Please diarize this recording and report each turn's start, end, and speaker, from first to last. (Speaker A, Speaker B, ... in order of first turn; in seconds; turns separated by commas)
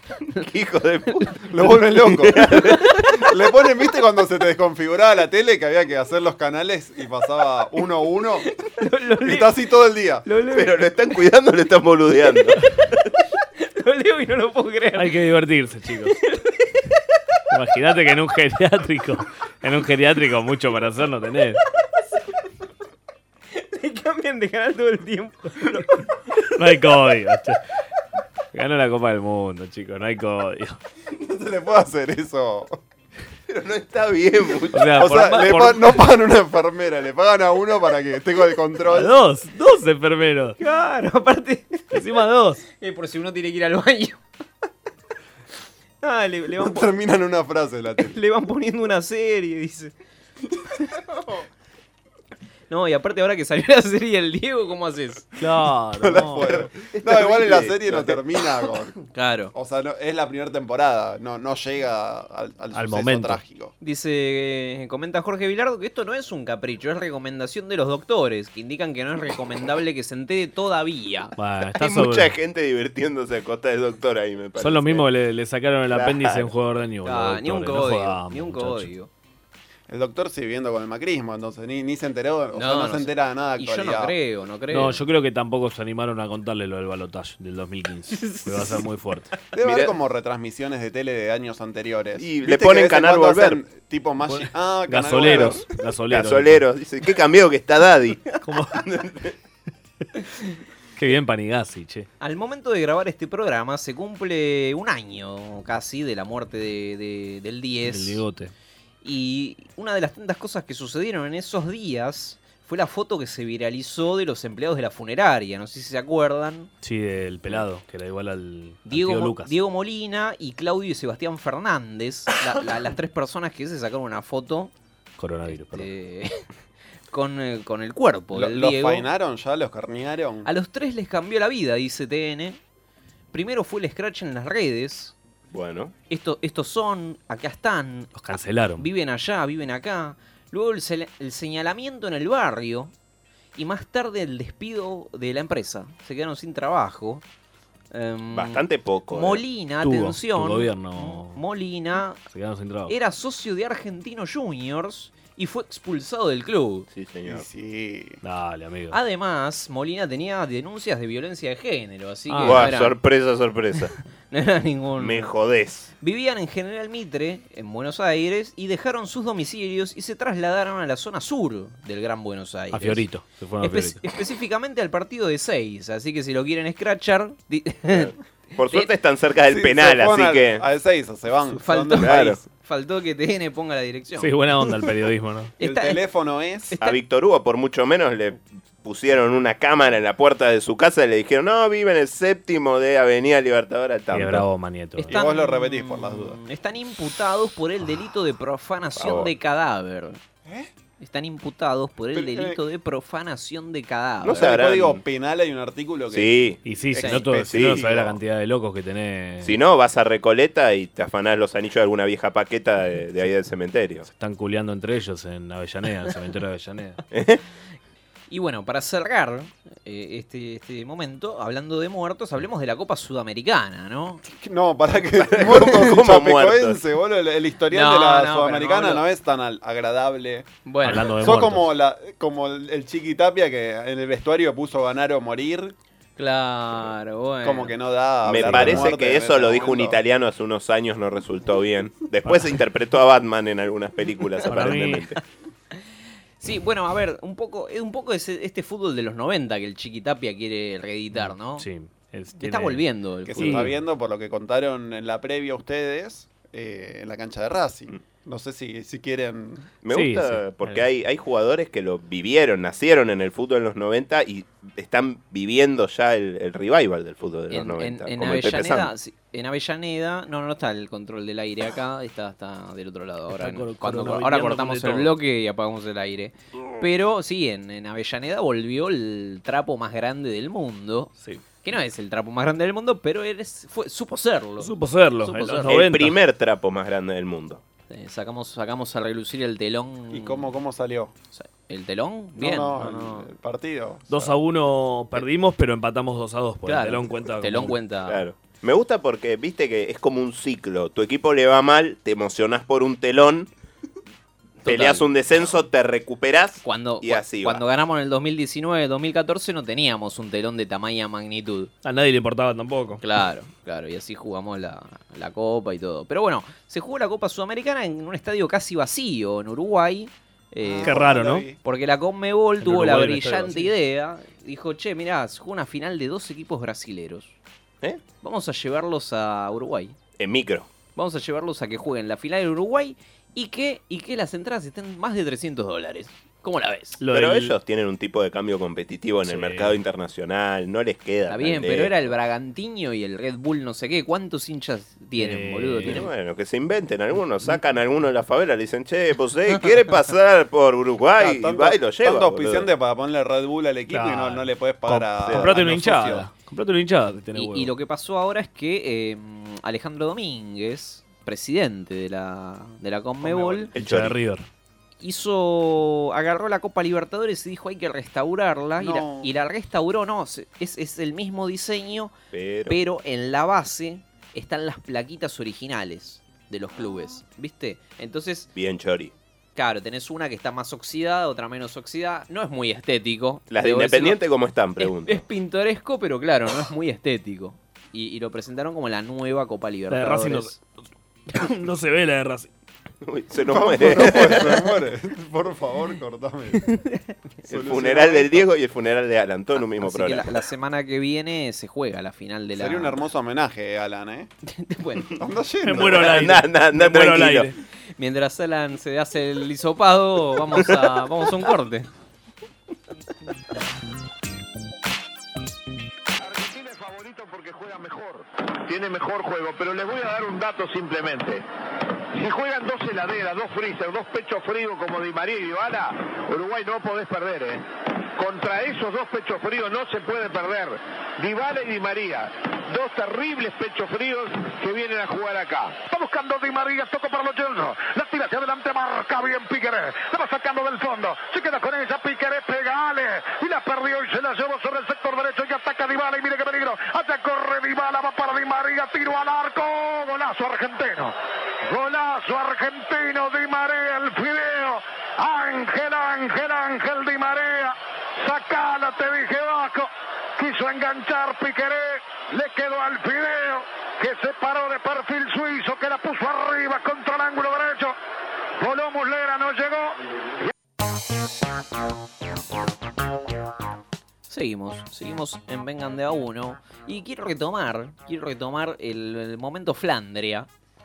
Speaker A: 0.4-3.2, Speaker B: 1.5-2.6, Speaker C: 2.5-3.1, Speaker B: 3.1-8.5, Speaker C: 8.4-9.5, Speaker B: 9.2-10.3, Speaker C: 10.2-10.9, Speaker A: 10.5-12.9, Speaker C: 13.6-15.2, Speaker D: 15.0-16.2, Speaker C: 16.2-16.7, Speaker D: 17.5-21.6, Speaker C: 23.5-26.0, Speaker D: 26.5-27.6, Speaker D: 28.5-30.8, Speaker B: 31.2-32.8, Speaker A: 33.5-34.9, Speaker D: 34.7-36.0, Speaker B: 35.0-39.1, Speaker D: 38.9-40.6, Speaker C: 40.6-42.0, Speaker D: 41.9-42.6, Speaker C: 42.7-44.2, Speaker C: 46.0-46.9, Speaker B: 46.6-48.2, Speaker C: 48.0-49.9, Speaker C: 52.7-55.3, Speaker D: 55.4-56.5, Speaker B: 56.0-58.9, Speaker A: 56.5-58.2, Speaker C: 59.1-59.5, Speaker B: 59.5-63.7, Speaker D: 62.7-63.4, Speaker C: 63.8-71.3, Speaker D: 71.4-72.3, Speaker A: 71.8-75.1, Speaker D: 74.6-78.9, Speaker A: 75.9-76.5, Speaker C: 77.0-79.1, Speaker B: 79.9-84.2, Speaker C: 82.5-85.0, Speaker D: 84.7-89.4, Speaker C: 88.1-88.8, Speaker B: 89.5-95.7, Speaker A: 89.6-89.9, Speaker A: 92.2-93.6, Speaker D: 94.3-96.6, Speaker A: 96.1-99.3, Speaker D: 98.4-98.8, Speaker D: 101.0-102.1, Speaker C: 102.2-108.2, Speaker D: 107.9-108.5, Speaker C: 109.0-116.7, Speaker D: 116.8-119.5, Speaker C: 118.9-124.7, Speaker D: 125.2-125.9, Speaker C: 125.5-126.5, Speaker C: 127.1-129.1, Speaker B: 128.3-130.5, Speaker C: 130.4-132.6, Speaker C: 133.3-135.2, Speaker A: 135.5-135.9, Speaker C: 136.1-138.2, Speaker D: 138.2-138.9, Speaker C: 138.8-142.9, Speaker C: 143.6-147.2, Speaker C: 147.9-152.2, Speaker A: 148.3-149.4, Speaker D: 149.8-151.4, Speaker D: 152.3-152.9, Speaker C: 152.9-156.9, Speaker A: 156.9-157.5, Speaker B: 157.2-158.2, Speaker D: 158.2-159.0, Speaker C: 158.9-163.0, Speaker D: 162.3-162.7, Speaker A: 162.4-164.0, Speaker C: 164.3-165.3, Speaker A: 165.0-165.9, Speaker C: 166.0-173.1, Speaker D: 172.7-174.0, Speaker C: 173.6-178.9, Speaker A: 177.9-180.7, Speaker B: 179.5-182.3, Speaker C: 181.5-184.3, Speaker A: 182.0-182.4, Speaker D: 184.2-185.5, Speaker C: 185.6-186.0, Speaker B: 185.6-186.8, Speaker C: 186.7-187.0, Speaker A: 186.8-194.5, Speaker D: 194.1-195.3, Speaker C: 195.0-200.2, Speaker B: 195.1-196.4, Speaker A: 199.0-199.3, Speaker B: 200.4-200.7, Speaker C: 201.0-204.5, Speaker B: 202.1-202.6, Speaker A: 204.2-205.0, Speaker B: 204.3-206.4, Speaker A: 206.1-208.1, Speaker D: 206.7-209.6, Speaker C: 206.9-207.2, Speaker A: 209.4-214.1, Speaker D: 214.0-217.0, Speaker A: 217.1-217.4, Speaker C: 218.3-224.2, Speaker B: 224.2-230.5, Speaker A: 225.1-226.8, Speaker C: 227.7-229.1, Speaker C: 230.7-231.2, Speaker D: 230.8-231.7, Speaker B: 231.2-235.8, Speaker C: 236.2-237.8, Speaker B: 237.4-240.0, Speaker A: 238.2-245.2, Speaker D: 238.4-238.9, Speaker D: 242.2-242.5, Speaker D: 244.5-245.1, Speaker C: 246.4-251.7, Speaker D: 251.2-252.8, Speaker C: 252.4-253.7, Speaker B: 253.3-259.7, Speaker D: 253.4-253.8, Speaker A: 259.8-268.9, Speaker D: 259.9-260.8, Speaker C: 267.5-285.7, Speaker D: 273.3-275.1, Speaker D: 284.6-286.2, Speaker A: 285.7-287.6, Speaker C: 287.9-290.5, Speaker B: 290.1-291.1, Speaker C: 291.3-293.3, Speaker B: 292.4-294.3, Speaker D: 294.1-297.8, Speaker C: 296.7-298.2, Speaker A: 298.1-303.5, Speaker C: 304.6-305.1, Speaker A: 304.6-307.6, Speaker C: 306.6-311.7, Speaker D: 311.8-313.0, Speaker C: 313.0-327.4, Speaker B: 320.6-321.6, Speaker D: 320.9-321.5, Speaker D: 322.6-323.7, Speaker C: 328.2-330.0, Speaker A: 330.2-330.7, Speaker C: 330.9-337.0, Speaker D: 337.0-337.6, Speaker A: 337.1-342.1, Speaker D: 339.2-339.8, Speaker C: 341.3-346.1, Speaker D: 345.2-346.1, Speaker A: 345.9-352.7, Speaker B: 351.2-356.3, Speaker D: 353.9-357.7, Speaker A: 355.2-355.6, Speaker C: 357.3-363.7, Speaker B: 363.2-363.7, Speaker A: 363.7-364.2, Speaker D: 363.8-364.5, Speaker C: 365.0-372.1, Speaker B: 368.8-369.4, Speaker A: 372.3-372.8, Speaker C: 372.7-378.5, Speaker A: 378.6-379.1, Speaker C: 379.6-384.2, Speaker A: 383.5-385.2, Speaker C: 384.8-390.6, Speaker D: 389.9-390.6, Speaker D: 391.3-392.5, Speaker A: 393.0-394.8, Speaker B: 393.5-396.7, Speaker C: 396.7-397.1, Speaker B: 397.4-398.5, Speaker A: 397.5-400.4, Speaker C: 399.8-403.0, Speaker B: 402.5-404.3, Speaker C: 404.4-405.1, Speaker B: 405.2-406.1, Speaker D: 405.6-407.6, Speaker A: 405.8-407.5, Speaker C: 408.0-411.9, Speaker E: 416.2-421.4, Speaker E: 422.1-435.8, Speaker F: 435.9-468.0, Speaker F: 468.6-470.0, Speaker C: 474.3-480.5